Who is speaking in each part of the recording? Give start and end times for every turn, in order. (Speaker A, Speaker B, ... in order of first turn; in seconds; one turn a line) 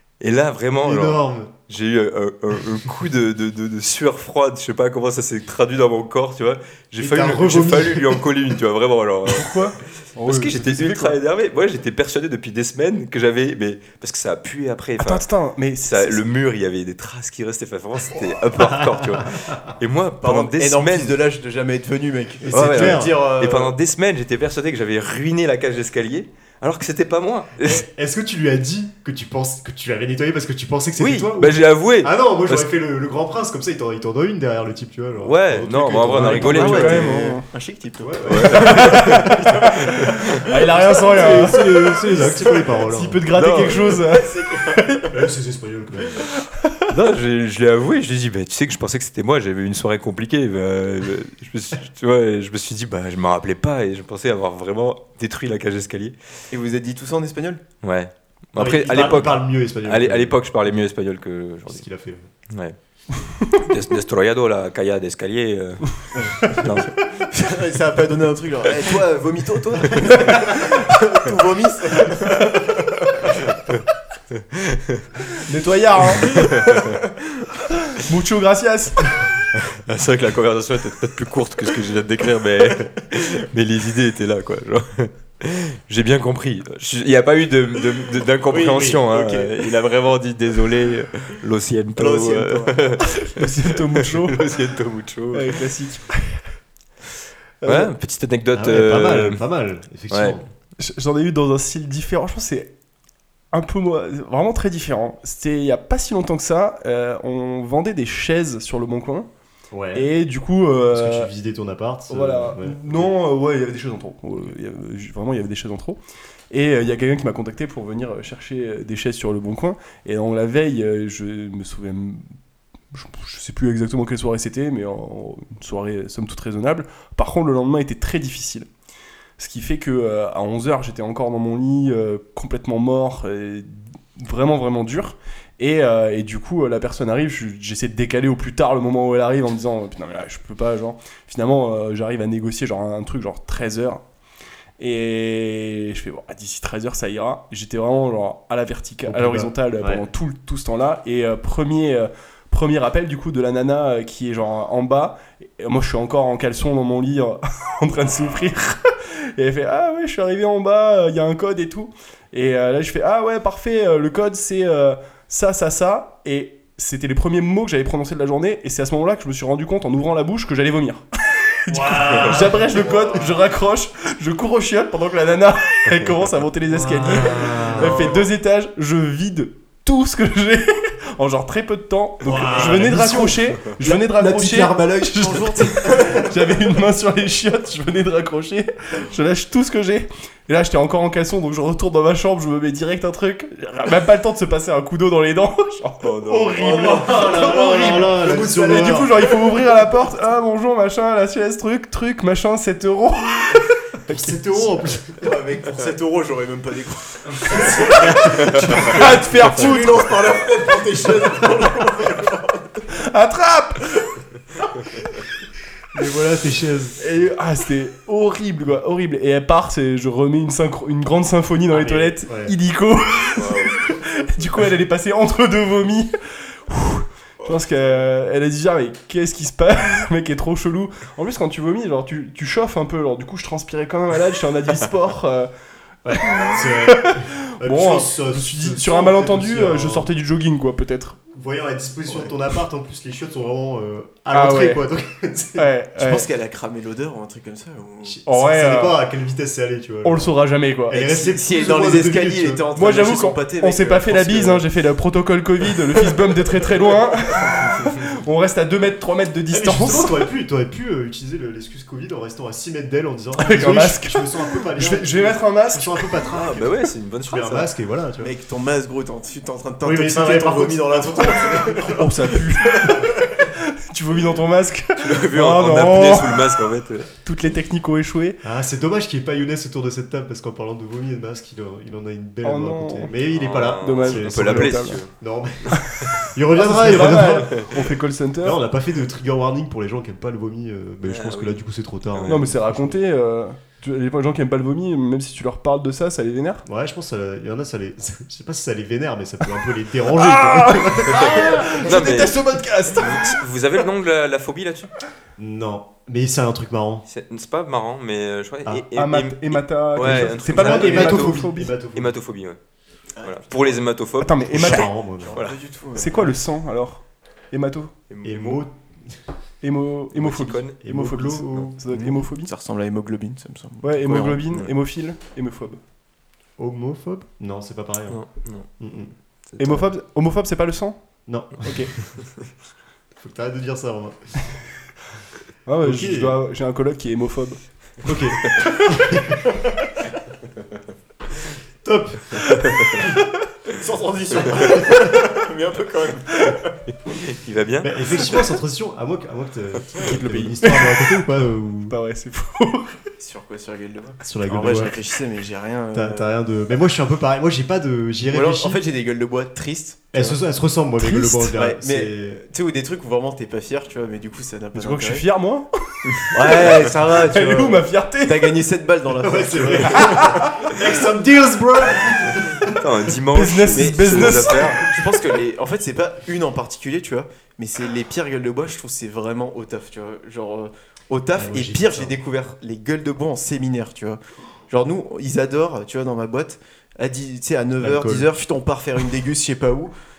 Speaker A: 0.2-9.7
Speaker B: 0.8-1.5
Speaker B: 7.0-8.3
Speaker C: 9.3-11.1
Speaker A: 10.2-15.3
Speaker C: 15.0-16.3
Speaker A: 15.9-21.2
Speaker B: 18.6-19.7
Speaker D: 20.2-23.7
Speaker B: 22.4-23.1
Speaker A: 22.5-27.9
Speaker B: 27.6-37.1
Speaker A: 31.0-32.7
Speaker A: 35.2-37.3
Speaker C: 36.1-37.5
Speaker D: 36.3-38.6
Speaker B: 38.0-39.9
Speaker A: 38.3-40.4
Speaker C: 38.5-39.8
Speaker C: 40.4-41.7
Speaker D: 40.8-42.5
Speaker B: 40.9-43.2
Speaker C: 42.9-45.1
Speaker A: 43.3-43.9
Speaker D: 43.9-45.1
Speaker B: 45.1-46.2
Speaker C: 46.6-46.9
Speaker A: 46.9-56.1
Speaker D: 56.5-57.6
Speaker A: 57.8-61.9
Speaker B: 58.6-60.8
Speaker B: 61.6-62.3
Speaker A: 63.5-67.2
Speaker D: 66.1-72.7
Speaker A: 73.3-75.0
Speaker C: 75.4-77.0
Speaker A: 76.2-77.0
Speaker C: 78.0-79.3
Speaker A: 79.6-95.6
Speaker D: 88.5-89.5
Speaker B: 88.5-89.0
Speaker D: 92.0-92.8
Speaker C: 93.2-94.4
Speaker C: 95.3-96.4
Speaker C: 97.6-97.9
Speaker A: 97.6-99.4
Speaker B: 98.5-100.5
Speaker A: 100.1-100.4
Speaker C: 100.8-102.7
Speaker C: 103.5-109.3
Speaker B: 109.7-110.1
Speaker C: 109.9-111.3
Speaker B: 110.9-113.1
Speaker C: 112.1-116.0
Speaker C: 116.5-122.3
Speaker C: 122.9-128.7
Speaker C: 129.4-144.0
Speaker C: 144.8-204.3
Speaker B: 149.1-150.0
Speaker B: 171.7-173.3
Speaker D: 172.8-173.2
Speaker B: 176.7-178.2
Speaker D: 177.7-178.3
Speaker B: 182.2-183.6
Speaker D: 183.8-186.3
Speaker A: 196.0-197.0
Speaker B: 196.6-199.3
Speaker D: 196.7-198.7
Speaker B: 204.1-205.3
Speaker D: 205.2-212.7
Speaker B: 207.5-209.0
Speaker C: 207.6-210.1
Speaker C: 212.9-214.0
Speaker B: 215.9-217.0
Speaker C: 217.0-226.1
Speaker B: 221.7-222.5
Speaker A: 223.4-223.8
Speaker C: 226.7-235.5
Speaker B: 236.1-240.1
Speaker C: 236.2-241.2
Speaker B: 241.3-245.7
Speaker C: 244.3-244.8
Speaker C: 245.6-246.2
Speaker D: 246.0-248.2
Speaker B: 248.0-250.3
Speaker C: 248.3-249.0
Speaker C: 250.0-251.0
Speaker B: 250.9-252.6
Speaker D: 250.9-254.7
Speaker C: 252.7-260.2
Speaker B: 259.5-268.3
Speaker C: 263.4-266.1
Speaker A: 266.3-267.7
Speaker D: 268.2-272.0
Speaker B: 269.8-272.1
Speaker C: 271.9-276.6
Speaker A: 275.0-277.1
Speaker C: 277.2-278.4
Speaker B: 278.4-287.9
Speaker C: 282.4-283.1
Speaker A: 283.3-285.1
Speaker C: 283.8-285.0
Speaker A: 286.0-286.3
Speaker C: 286.5-288.6
Speaker B: 288.4-293.0
Speaker A: 291.0-292.5
Speaker C: 292.3-296.6
Speaker B: 296.7-302.0
Speaker C: 300.2-303.4
Speaker A: 301.1-302.4
Speaker A: 302.9-304.9
Speaker B: 305.4-307.1
Speaker A: 307.1-312.6
Speaker C: 308.9-311.7
Speaker B: 310.0-312.1
Speaker D: 313.2-313.8
Speaker A: 313.2-315.6
Speaker C: 314.2-314.9
Speaker B: 314.5-315.4
Speaker D: 315.2-316.3
Speaker C: 315.9-317.9
Speaker A: 318.1-318.6
Speaker B: 318.2-319.2
Speaker C: 319.6-322.5
Speaker A: 320.1-320.8
Speaker B: 320.8-321.8
Speaker D: 321.9-324.7
Speaker C: 323.8-325.8
Speaker B: 326.6-328.2
Speaker A: 328.1-328.7
Speaker B: 328.8-329.1
Speaker A: 329.5-329.9
Speaker C: 329.6-331.0
Speaker B: 331.3-332.1
Speaker C: 331.5-331.9
Speaker B: 333.2-334.2
Speaker C: 335.7-337.6
Speaker B: 335.8-336.4
Speaker B: 338.0-339.6
Speaker B: 341.8-343.2
Speaker D: 343.7-346.7
Speaker B: 344.6-345.1
Speaker A: 347.1-348.5
Speaker B: 347.8-351.9
Speaker C: 350.0-351.2
Speaker C: 351.9-353.0
Speaker D: 353.2-356.3
Speaker B: 354.2-355.0
Speaker B: 355.9-358.8
Speaker D: 358.3-360.4
Speaker B: 360.1-362.4
Speaker C: 361.0-361.5
Speaker D: 361.5-365.2
Speaker C: 364.7-368.5
Speaker D: 366.3-370.7
Speaker B: 369.1-372.9
Speaker C: 369.9-370.6
Speaker A: 372.7-374.9
Speaker C: 373.3-374.7
Speaker D: 373.7-389.9
Speaker B: 381.4-382.2
Speaker B: 387.8-388.3